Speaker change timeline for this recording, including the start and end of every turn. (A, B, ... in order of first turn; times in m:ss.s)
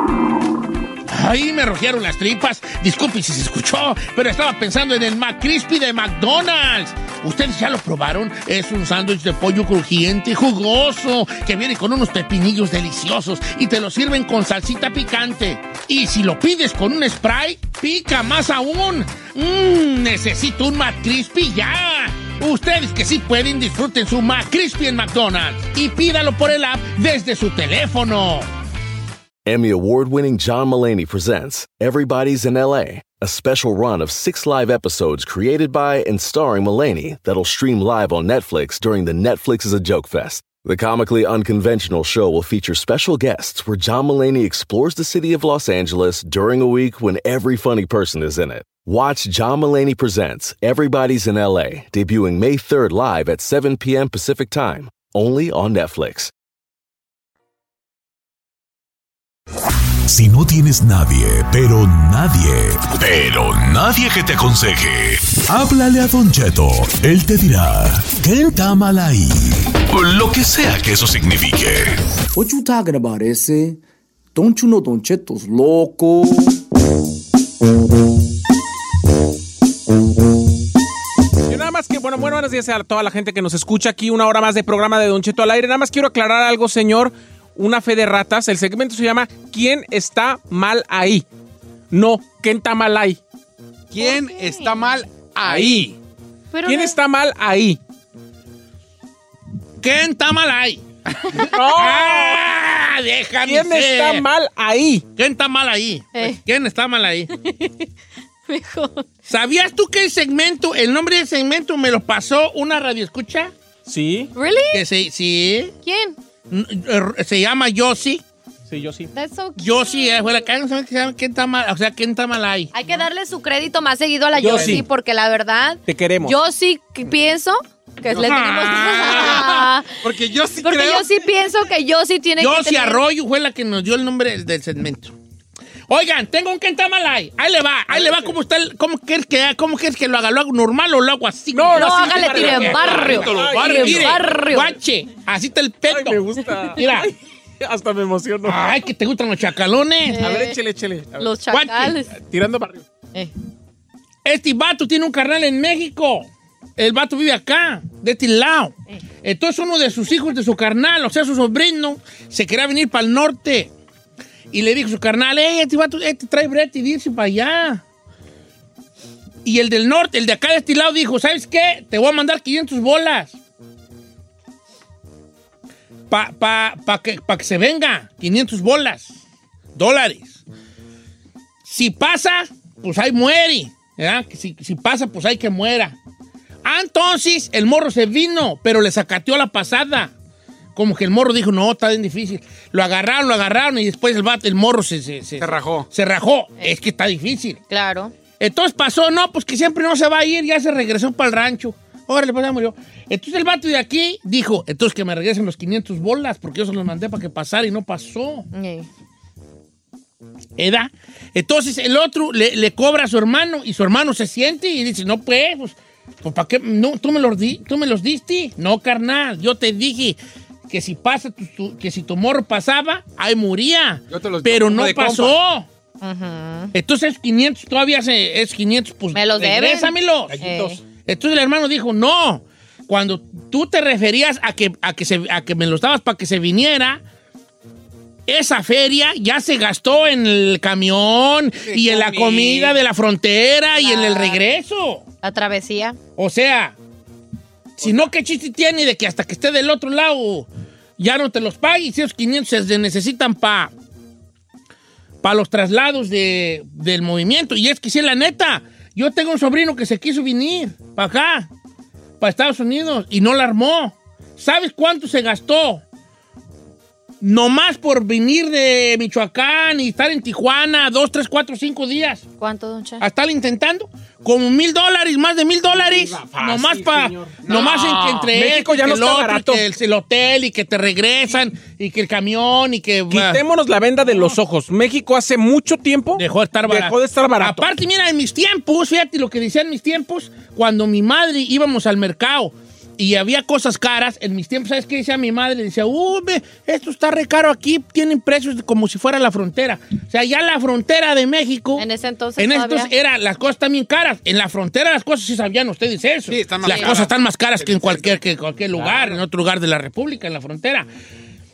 0:01.1-0:28.5 A
0:29.4-0:56.3 B
1:00.1-1:12.0 C
1:12.3-1:13.8 D
1:14.3-1:16.6 D
1:21.4-1:31.2 E
1:31.9-1:33.2 E
1:33.9-1:36.0 F
1:34.0-1:34.9 G
1:35.4-1:35.9 E
1:36.5-1:37.0 G
1:36.6-1:37.8 E
1:39.8-1:40.8 A
1:41.4-1:44.3 A
1:41.4-1:42.4 E
1:43.4-1:45.0 E
1:45.2-1:47.3 A
1:47.4-1:47.8 G
1:48.5-1:49.0 G
1:49.3-1:53.5 A
1:53.8-1:54.3 E
1:54.3-1:54.8 G
1:54.7-1:55.7 A
1:55.8-1:56.2 G
1:56.5-1:58.2 A
1:58.7-1:59.1 E
1:59.1-2:00.4 G
1:59.6-2:02.7 A
2:02.7-2:10.0 G
2:04.4-2:04.8 E
2:04.5-2:04.8 A
2:05.9-2:06.4 E
2:08.1-2:09.7 A
2:08.1-2:11.1 F
2:10.6-2:13.0 G
2:12.4-2:15.1 A
2:15.9-2:26.2 A
2:17.9-2:18.3 E
2:21.5-2:24.3 E
2:21.7-2:24.8 G
2:25.9-2:28.7 E
2:26.7-2:27.1 A
2:28.4-2:30.2 A
2:30.1-2:30.6 G
2:30.2-2:31.3 E
2:31.2-2:32.1 G
2:31.5-2:32.0 A
2:32.1-2:32.8 E
2:34.2-2:43.7 A
2:44.5-2:47.8 A
2:49.4-2:53.4 A
2:56.1-2:59.2 A
2:59.7-3:00.4 A
3:01.6-3:06.0 A
3:06.6-3:10.1 A
3:10.7-3:17.6 A
3:15.4-3:15.9 F
3:17.7-3:18.1 G
3:18.4-3:28.5 A
3:28.5-3:28.9 G
3:30.6-3:40.2 A
3:40.7-3:45.7 A
3:44.1-3:45.4 F
3:46.0-3:46.7 G
3:46.7-3:50.4 A
3:49.1-3:50.8 G
3:50.4-3:50.7 E
3:51.0-3:57.0 A
3:58.3-4:05.0 A
4:01.6-4:02.8 F
4:03.8-4:04.4 G
4:05.2-4:06.0 G
4:06.2-4:06.8 A
4:07.8-4:13.7 A
4:07.8-4:08.1 F
4:15.2-4:21.5 A
4:22.2-4:25.8 A
4:27.2-4:32.2 A
4:32.4-4:33.0 G
4:33.0-4:43.4 A
4:35.7-4:37.8 E
4:37.4-4:38.3 F
4:38.3-4:39.6 E
4:43.1-4:47.7 E
4:46.2-5:01.8 A
5:01.8-5:02.9 G
5:02.4-5:10.9 A
5:06.3-5:08.2 F
5:06.6-5:06.9 G
5:08.8-5:09.1 F